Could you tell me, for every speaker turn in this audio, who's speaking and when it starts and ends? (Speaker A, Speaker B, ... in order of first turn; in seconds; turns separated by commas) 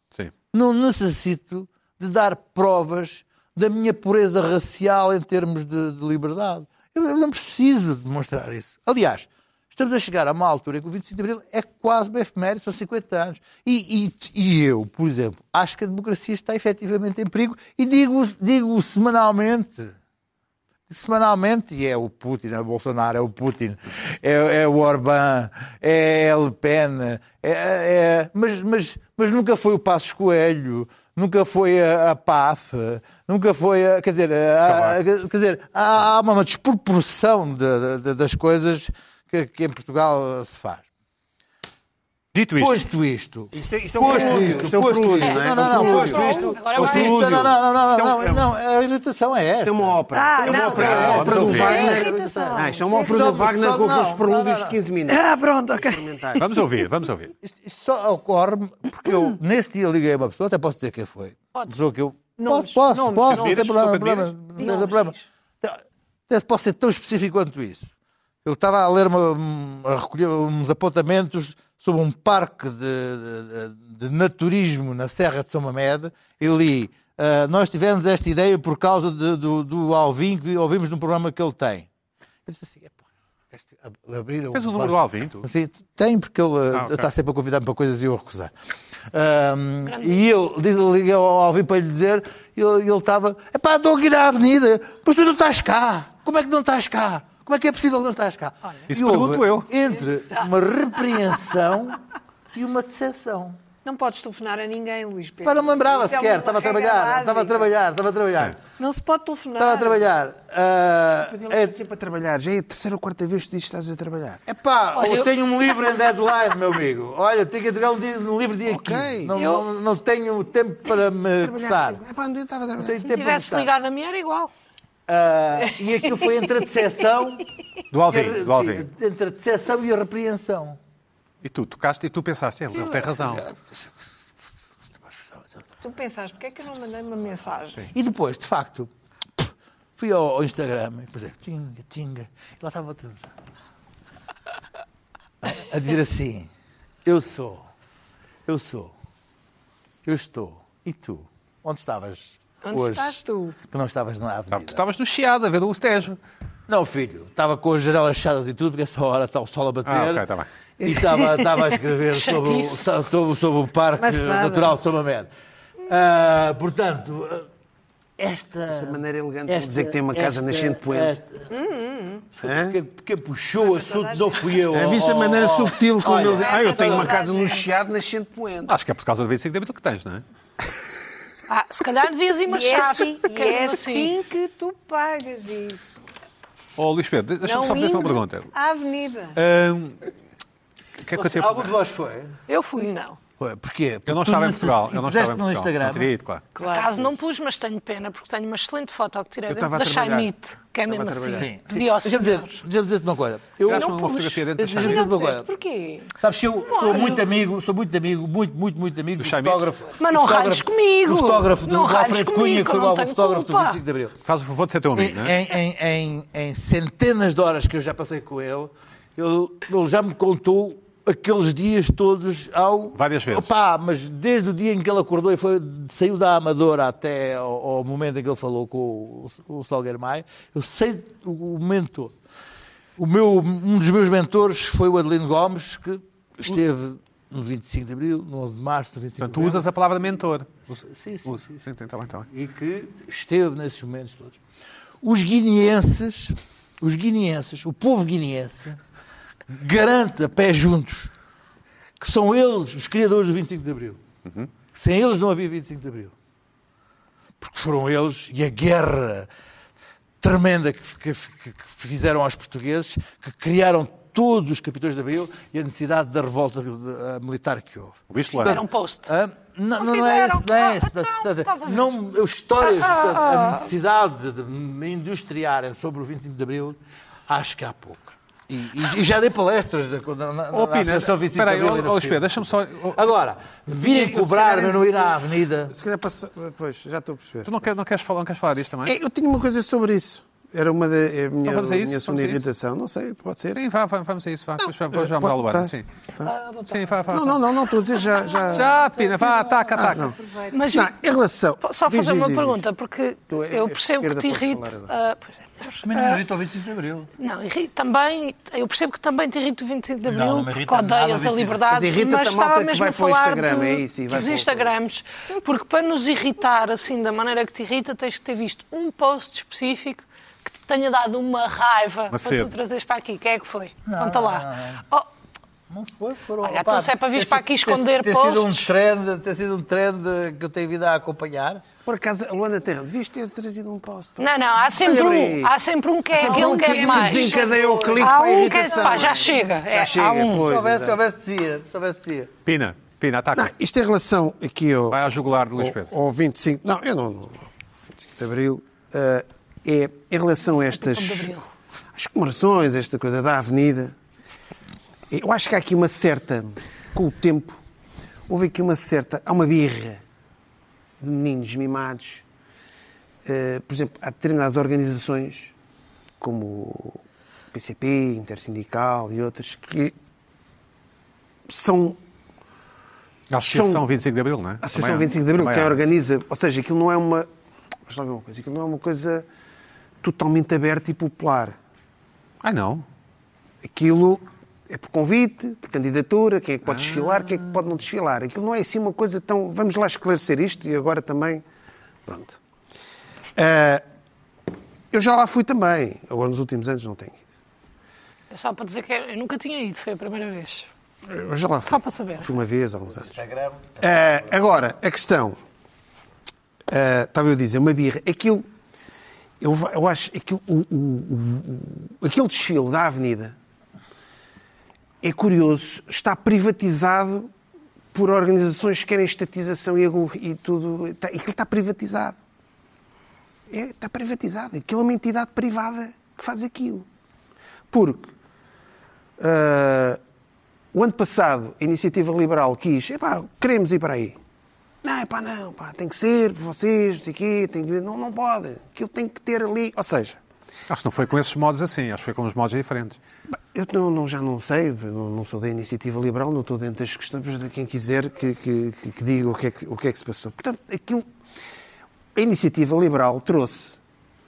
Speaker A: 0.5-19.9, Speaker A: 20.9-40.9, Speaker B: 34.6-35.0, Speaker B: 42.3-42.8, Speaker A: 42.6-54.8, Speaker C: 43.5-48.4, Speaker D: 43.9-44.6, Speaker E: 45.2-47.3, Speaker C: 49.6-56.5, Speaker D: 50.1-53.5, Speaker B: 50.7-51.9, Speaker D: 55.1-56.2, Speaker B: 56.4-57.3, Speaker A: 57.4-67.9, Speaker D: 62.4-63.6, Speaker B: 63.3-64.8, Speaker E: 64.6-65.2, Speaker A: 68.4-81.9, Speaker A: 82.5-88.5, Speaker B: 84.5-85.5, Speaker B: 86.7-87.1, Speaker A: 89.1-102.0, Speaker E: 89.8-90.2, Speaker B: 98.9-99.7, Speaker A: 102.5-103.6, Speaker D: 103.8-107.7, Speaker A: 105.4-108.6, Speaker D: 108.8-110.0, Speaker A: 109.6-111.8, Speaker C: 111.1-114.4, Speaker A: 114.5-122.0, Speaker E: 114.9-115.3, Speaker C: 118.7-119.3, Speaker E: 119.3-119.7, Speaker C: 121.3-123.0, Speaker A: 122.8-123.7, Speaker E: 123.0-124.5, Speaker A: 125.1-127.5, Speaker B: 127.9-128.9, Speaker A: 128.1-130.8, Speaker B: 131.4-133.5, Speaker A: 132.7-133.9, Speaker A: 135.0-135.6, Speaker D: 135.8-137.9, Speaker A: 137.9-143.3, Speaker A: 145.4-146.5, Speaker A: 147.0-147.7, Speaker A: 148.4-148.9, Speaker A: 150.0-154.8, Speaker D: 152.6-153.6, Speaker B: 154.5-156.2, Speaker A: 156.7-160.2, Speaker B: 159.8-160.5, Speaker A: 160.8-165.3, Speaker D: 160.8-161.7, Speaker E: 162.1-162.9, Speaker D: 164.0-164.8, Speaker A: 165.9-167.5, Speaker A: 168.2-171.5, Speaker C: 168.7-171.1, Speaker D: 171.5-172.3, Speaker C: 172.4-172.8, Speaker A: 172.4-177.2, Speaker D: 173.7-174.3, Speaker C: 174.7-178.8, Speaker D: 176.4-177.6, Speaker E: 176.7-177.6, Speaker B: 178.7-180.2, Speaker E: 181.5-184.2, Speaker D: 182.5-186.0, Speaker B: 186.8-188.5, Speaker D: 187.4-189.4, Speaker B: 189.3-190.0, Speaker B: 191.0-191.7, Speaker A: 191.1-192.4, Speaker E: 192.5-192.9, Speaker D: 192.8-193.2, Speaker A: 193.4-196.1, Speaker B: 194.1-196.4, Speaker D: 196.6-197.0, Speaker E: 196.6-202.6, Speaker C: 199.5-200.3, Speaker C: 200.9-201.5, Speaker A: 201.3-203.9, Speaker B: 203.6-205.1, Speaker E: 203.7-204.4, Speaker A: 204.6-205.5, Speaker D: 204.8-206.1, Speaker A: 206.1-214.2, Speaker D: 206.7-207.2, Speaker B: 209.2-209.6, Speaker E: 210.0-213.8, Speaker B: 214.2-215.4, Speaker A: 214.9-232.1, Speaker B: 222.9-223.5, Speaker A: 233.0-239.7, Speaker B: 239.2-242.3, Speaker A: 240.8-241.5, Speaker A: 242.2-244.4, Speaker A: 245.0-248.8, Speaker A: 249.5-251.1, Speaker A: 252.0-254.0, Speaker A: 254.7-256.1, Speaker A: 257.4-259.3, Speaker A: 260.2-285.7, Speaker B: 268.1-268.6, Speaker E: 268.4-269.1, Speaker E: 269.8-271.9, Speaker E: 272.6-273.6, Speaker B: 280.5-283.0, Speaker C: 283.7-284.9, Speaker C: 285.7-287.5, Speaker B: 287.4-288.9, Speaker C: 288.9-293.6, Speaker B: 291.4-292.5, Speaker B: 293.5-295.9, Speaker C: 294.6-296.3, Speaker B: 296.6-297.5, Speaker C: 297.1-298.8, Speaker B: 298.5-300.1, Speaker C: 299.7-300.1, Speaker E: 300.5-300.9, Speaker C: 300.7-302.6, Speaker E: 301.6-306.2, Speaker C: 303.3-304.9, Speaker A: 305.6-307.1, Speaker E: 307.2-325.1, Speaker A: 310.0-311.6, Speaker C: 311.7-314.7, Speaker B: 322.1-322.5, Speaker A: 323.9-324.8, Speaker A: 325.7-331.6, Speaker E: 326.4-328.7, Speaker C: 331.8-335.5, Speaker E: 334.2-340.4, Speaker C: 336.1-341.0, Speaker D: 336.6-337.6, Speaker A: 340.4-342.3, Speaker B: 342.4-343.5, Speaker C: 343.3-345.0, Speaker B: 344.9-345.9, Speaker C: 345.6-351.3, Speaker E: 350.6-351.5, Speaker C: 351.9-353.9, Speaker C: 355.1-357.6, Speaker C: 358.3-360.0, Speaker C: 361.0-362.2, Speaker C: 363.2-365.5, Speaker C: 366.2-369.9, Speaker C: 371.5-372.0, Speaker B: 373.3-375.8, Speaker C: 373.4-373.8, Speaker C: 374.6-377.3, Speaker C: 377.9-379.2, Speaker C: 380.0-381.6, Speaker B: 382.4-382.8, Speaker C: 383.6-391.4, Speaker B: 386.7-387.5, Speaker C: 392.1-392.4, Speaker C: 393.3-393.8, Speaker C: 394.9-397.2, Speaker E: 398.3-400.7, Speaker C: 401.1-403.1, Speaker E: 401.6-402.3, Speaker A: 402.9-404.3, Speaker C: 403.8-405.4, Speaker C: 406.7-408.4, Speaker C: 409.4-413.3, Speaker C: 415.0-417.3, Speaker C: 417.9-422.2, Speaker C: 423.5-426.9, Speaker C: 427.7-428.1, Speaker C: 429.2-430.0, Speaker C: 430.7-434.2, Speaker C: 434.8-440.2, Speaker B: 440.7-443.0, Speaker C: 443.5-451.1, Speaker C: 452.1-453.8